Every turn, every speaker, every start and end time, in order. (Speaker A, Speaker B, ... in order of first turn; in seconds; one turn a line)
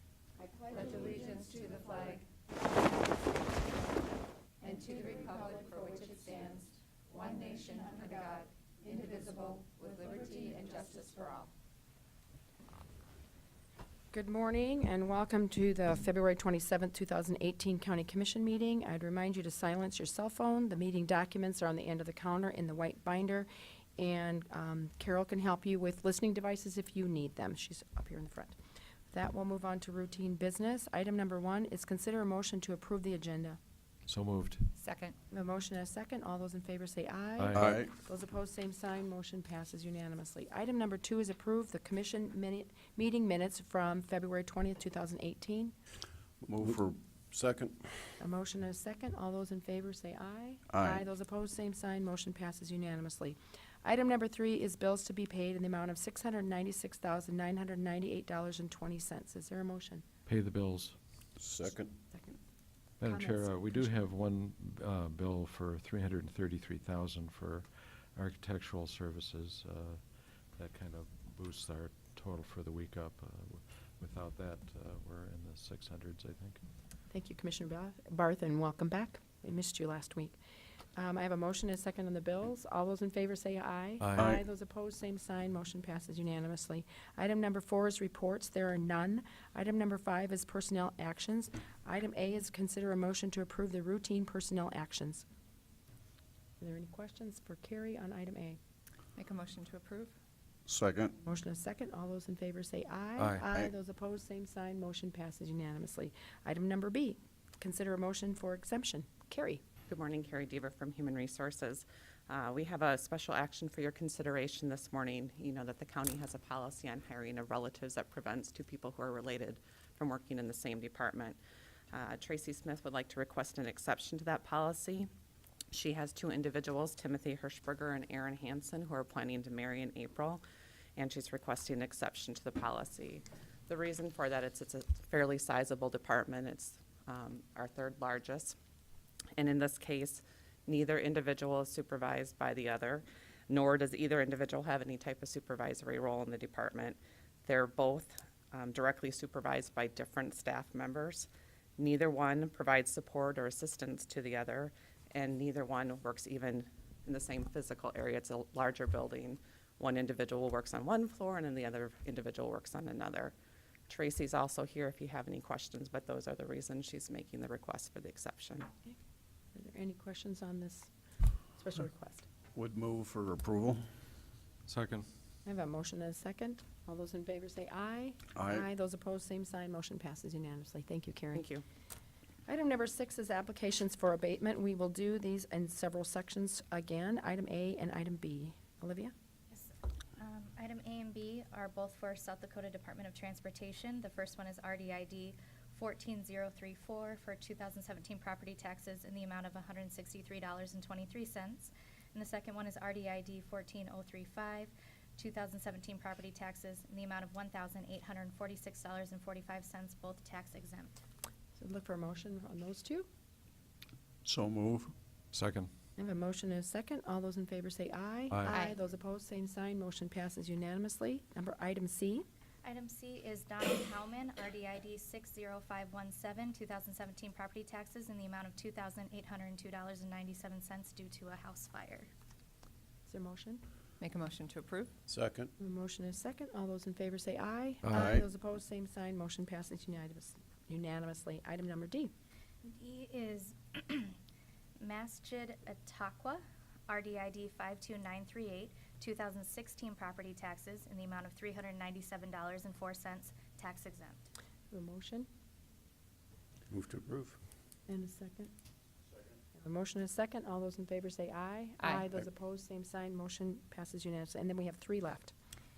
Speaker A: 0.4-2.3
Speaker A: 4.6-11.5
Speaker B: 14.1-28.6
Speaker B: 29.1-33.6
Speaker C: 34.1-34.7
Speaker A: 34.8-35.1
Speaker B: 35.3-45.7
Speaker C: 37.4-37.8
Speaker D: 37.5-37.9
Speaker D: 46.4-48.2
Speaker B: 48.2-60.0
Speaker D: 50.7-51.1
Speaker C: 60.3-61.0
Speaker D: 61.4-61.9
Speaker B: 62.1-62.4
Speaker C: 63.0-76.6
Speaker B: 63.0-63.9
Speaker B: 77.1-80.4
Speaker B: 81.0-95.3
Speaker C: 84.0-84.3
Speaker D: 84.1-84.4
Speaker B: 96.6-98.6
Speaker A: 99.2-100.1
Speaker D: 100.7-101.2
Speaker B: 101.2-109.6
Speaker C: 103.2-103.5
Speaker E: 109.9-121.4
Speaker E: 121.9-125.1
Speaker E: 125.7-130.4
Speaker E: 131.0-138.6
Speaker E: 139.4-163.3
Speaker E: 163.9-168.7
Speaker B: 169.6-170.9
Speaker B: 171.6-172.3
Speaker D: 172.5-173.8
Speaker C: 174.7-175.1
Speaker B: 175.4-181.5
Speaker D: 178.3-178.7
Speaker E: 181.3-181.6
Speaker B: 182.5-189.1
Speaker F: 189.5-210.9
Speaker B: 211.6-213.1
Speaker D: 214.2-214.9
Speaker C: 215.3-215.7
Speaker B: 216.0-222.2
Speaker F: 222.6-232.1
Speaker B: 233.1-233.6
Speaker A: 234.0-234.9
Speaker D: 235.1-235.5
Speaker B: 235.6-242.1
Speaker C: 237.8-238.1
Speaker D: 237.9-238.3
Speaker F: 242.6-244.1
Speaker F: 244.8-254.2
Speaker B: 254.7-255.3
Speaker D: 256.7-257.4
Speaker B: 257.9-258.5
Speaker B: 259.6-265.3